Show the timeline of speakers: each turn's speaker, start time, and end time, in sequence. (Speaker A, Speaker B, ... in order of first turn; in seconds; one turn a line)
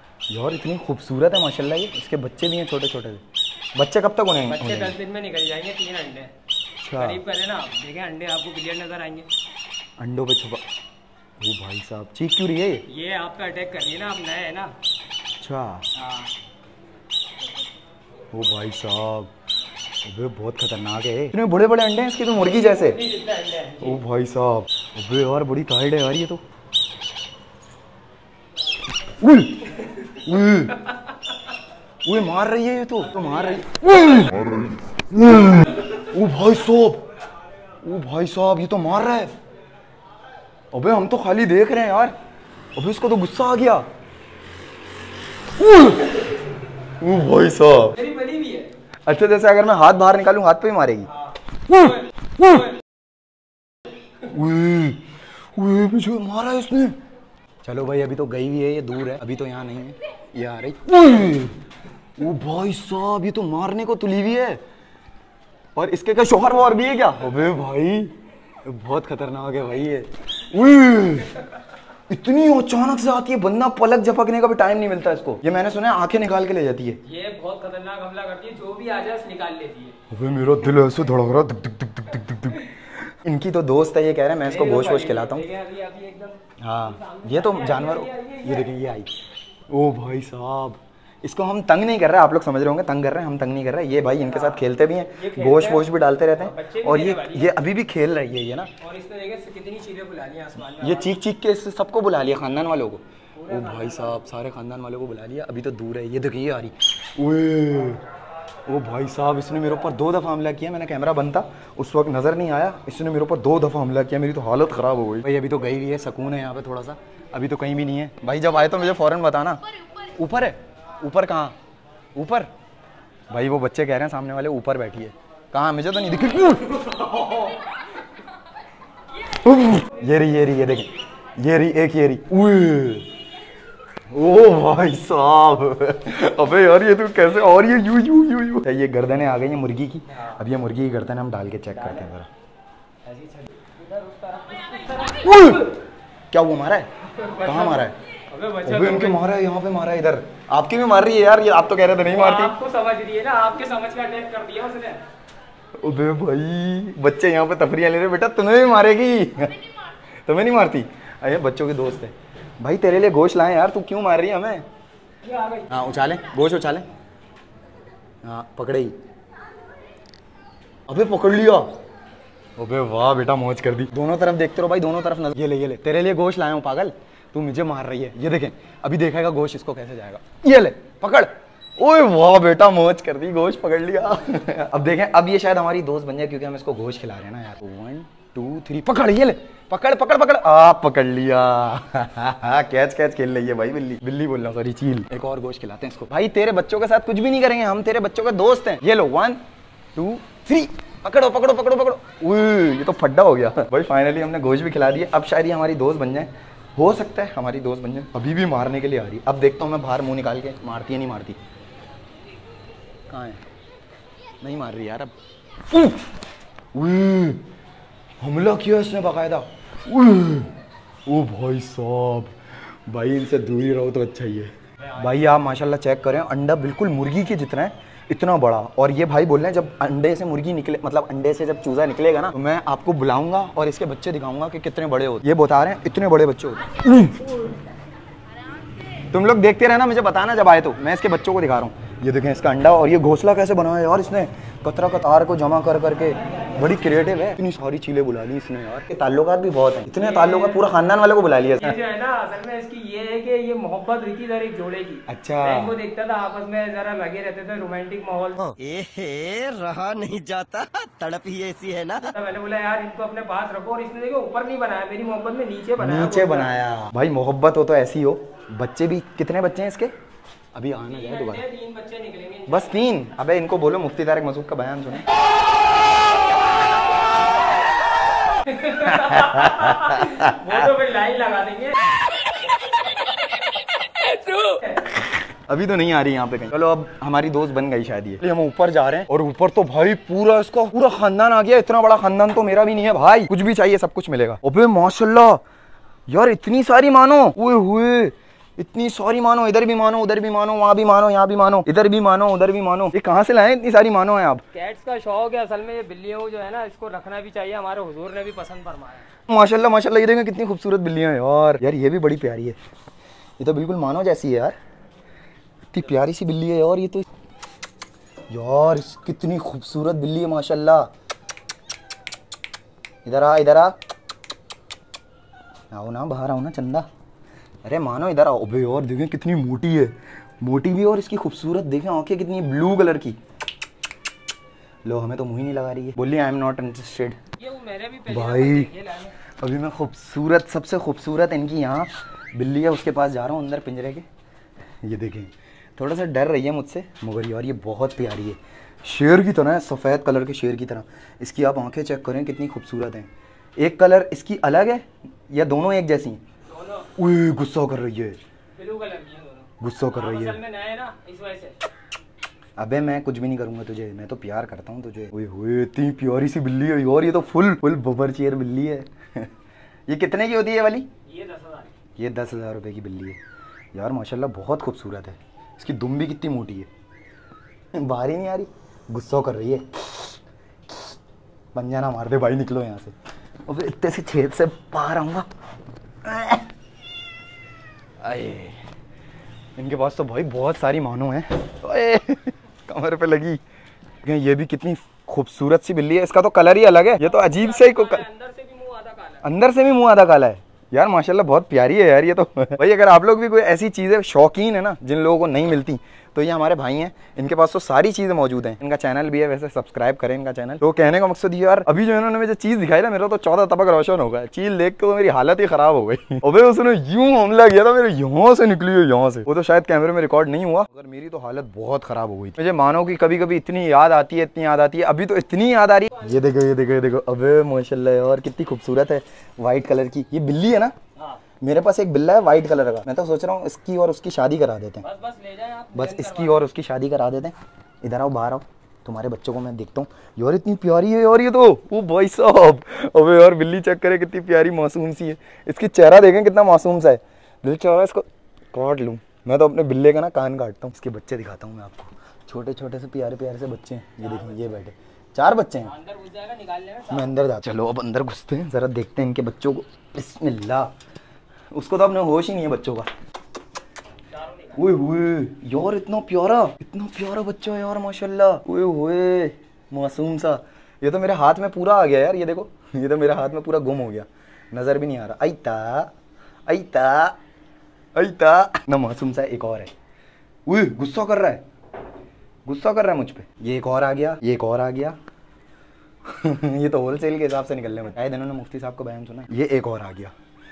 Speaker A: 0.3-3.2
Speaker A: 3.7-5.0
Speaker B: 4.5-6.3
Speaker A: 6.8-7.2
Speaker B: 6.9-9.3
Speaker A: 10.0-10.6
Speaker A: 11.4-12.8
Speaker B: 12.9-14.7
Speaker A: 15.4-15.8
Speaker B: 16.0-16.3
Speaker A: 18.3-19.3
Speaker A: 20.0-23.0
Speaker B: 22.4-24.0
Speaker A: 23.8-26.4
Speaker A: 29.2-30.8
Speaker A: 32.0-37.0
Speaker B: 33.1-33.7
Speaker A: 37.8-39.3
Speaker A: 40.7-42.1
Speaker A: 42.8-43.8
Speaker A: 45.5-46.1
Speaker A: 46.9-48.0
Speaker B: 48.0-48.7
Speaker A: 49.0-51.1
Speaker B: 51.6-52.8
Speaker A: 54.2-57.0
Speaker A: 57.6-61.5
Speaker A: 62.2-64.6
Speaker A: 65.8-71.4
Speaker A: 72.1-77.0
Speaker B: 77.0-79.9
Speaker A: 80.1-85.5
Speaker B: 84.4-88.7
Speaker A: 86.6-89.1
Speaker A: 89.7-98.7
Speaker B: 94.2-97.6
Speaker B: 98.8-101.1
Speaker A: 100.8-108.0
Speaker B: 103.3-104.3
Speaker A: 108.7-121.5
Speaker A: 122.1-122.5
Speaker A: 123.3-127.4
Speaker A: 129.4-133.1
Speaker A: 134.1-142.3
Speaker B: 141.8-142.1
Speaker B: 143.0-145.8
Speaker A: 146.3-146.9
Speaker B: 147.1-149.3
Speaker A: 147.4-147.9
Speaker A: 148.6-152.5
Speaker B: 152.1-155.0
Speaker A: 155.8-159.6
Speaker A: 160.2-164.6
Speaker B: 165.2-165.8
Speaker A: 165.7-166.8
Speaker A: 168.2-168.9
Speaker A: 170.9-171.7
Speaker A: 172.6-199.4
Speaker A: 199.9-211.4
Speaker A: 213.1-213.4
Speaker A: 214.4-215.1
Speaker A: 215.7-216.0
Speaker A: 216.7-217.4
Speaker A: 218.2-220.5
Speaker A: 221.1-222.3
Speaker A: 222.9-237.3
Speaker A: 239.1-251.8
Speaker B: 249.9-250.6
Speaker B: 251.6-258.5
Speaker A: 255.1-255.7
Speaker C: 258.5-262.1
Speaker B: 262.1-266.6
Speaker A: 265.8-269.9
Speaker A: 270.5-271.4
Speaker B: 270.8-272.7
Speaker A: 272.5-275.0
Speaker B: 278.4-281.9
Speaker A: 278.8-280.5
Speaker B: 284.0-284.9
Speaker A: 285.0-295.4
Speaker A: 296.1-304.4
Speaker B: 304.5-309.1
Speaker A: 309.3-312.6
Speaker A: 313.4-314.5
Speaker A: 315.7-317.1
Speaker A: 318.3-320.9
Speaker A: 323.0-323.7
Speaker A: 325.7-326.9
Speaker A: 327.6-333.2
Speaker A: 334.8-337.2
Speaker B: 337.4-339.2
Speaker A: 338.1-338.7
Speaker A: 339.4-344.1
Speaker A: 344.8-356.2
Speaker B: 356.4-356.9
Speaker A: 356.9-358.2
Speaker B: 358.5-361.6
Speaker A: 359.6-360.4
Speaker A: 362.6-369.3
Speaker A: 369.9-370.9
Speaker B: 371.0-371.7
Speaker A: 371.9-373.2
Speaker A: 373.7-376.7
Speaker A: 377.7-380.1
Speaker A: 381.5-382.9
Speaker A: 383.5-385.3
Speaker A: 386.0-386.4
Speaker A: 388.0-388.6
Speaker A: 389.6-393.4
Speaker A: 394.0-398.0
Speaker B: 397.0-399.3
Speaker A: 399.2-430.7
Speaker B: 425.9-426.2
Speaker B: 430.9-431.2
Speaker A: 431.4-434.9
Speaker B: 434.8-436.4
Speaker A: 435.7-455.7
Speaker B: 454.0-454.5
Speaker B: 455.6-457.1
Speaker A: 456.9-460.7
Speaker A: 461.5-462.9
Speaker B: 464.1-464.6
Speaker A: 464.5-475.9
Speaker A: 476.5-477.1
Speaker A: 477.9-479.7
Speaker A: 480.4-481.4
Speaker A: 482.4-485.0
Speaker A: 486.1-490.1